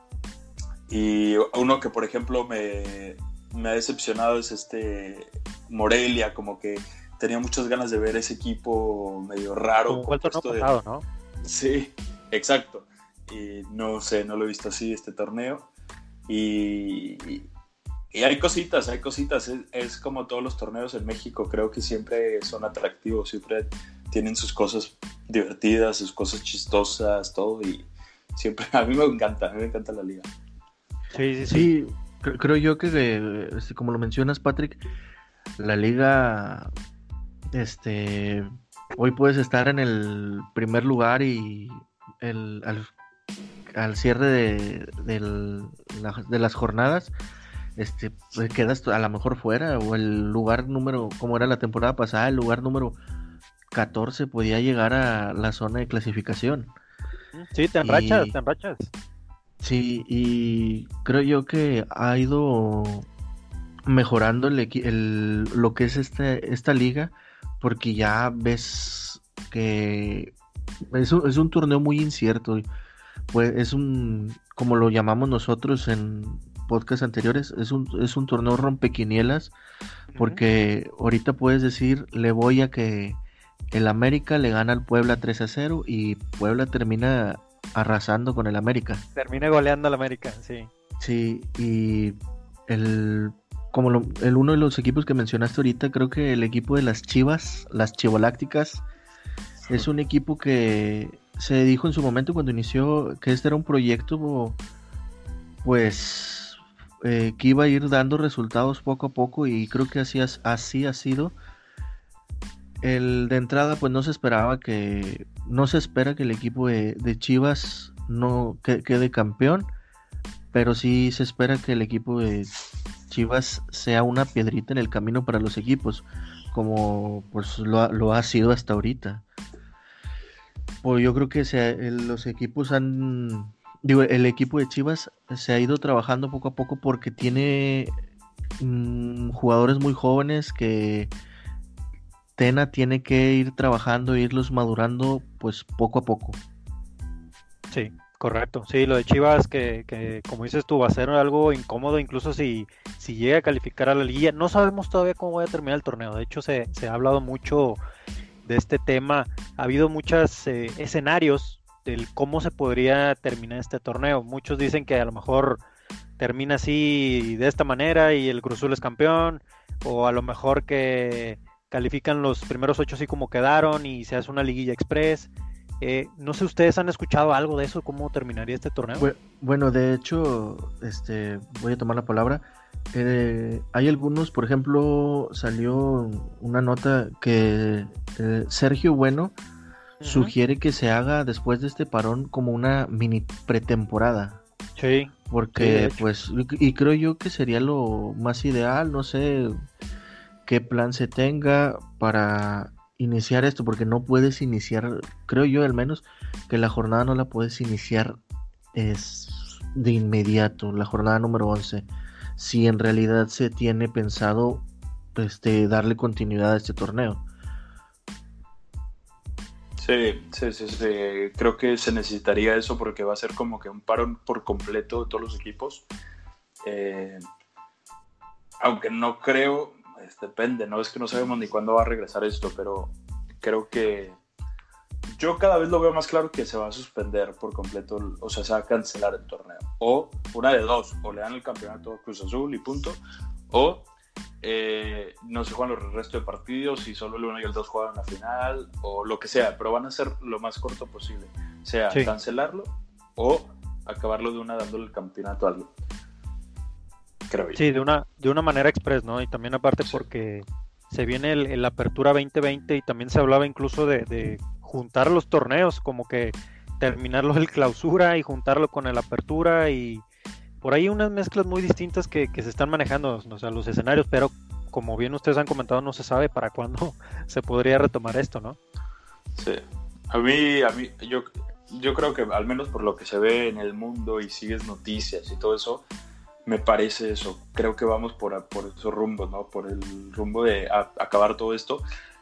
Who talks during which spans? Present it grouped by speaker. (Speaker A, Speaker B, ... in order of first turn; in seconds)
Speaker A: 0.9-10.7, 11.4-15.7, 16.3-17.5, 18.1-30.3, 219.8-225.9, 226.6-227.2, 228.6-234.2, 235.2-243.9, 244.4-255.7, 257.3-257.6, 280.1-285.9, 286.5-291.8
Speaker B: 9.9-11.1, 31.1-31.7, 57.3-58.9, 80.1-80.4, 89.2-90.7, 147.7-157.8, 158.5-165.6, 166.2-179.1, 190.0-190.3, 194.8-196.1, 257.6-270.0, 270.6-278.6
Speaker C: 31.5-34.8, 35.6-36.7, 37.5-42.9, 43.7-47.1, 47.8-53.0, 53.7-56.7, 57.8-58.4, 59.6-63.1, 63.9-70.4, 70.9-72.7, 73.3-79.5, 80.2-83.2, 83.7-89.0, 91.0-98.8, 99.7-104.6, 105.6-111.4, 112.8-119.7, 120.5-122.5, 123.1-129.2, 130.8-137.9, 138.6-141.1, 142.4-146.4, 179.0-189.3, 190.1-194.4, 195.3-199.6, 200.5-208.2, 208.7-217.2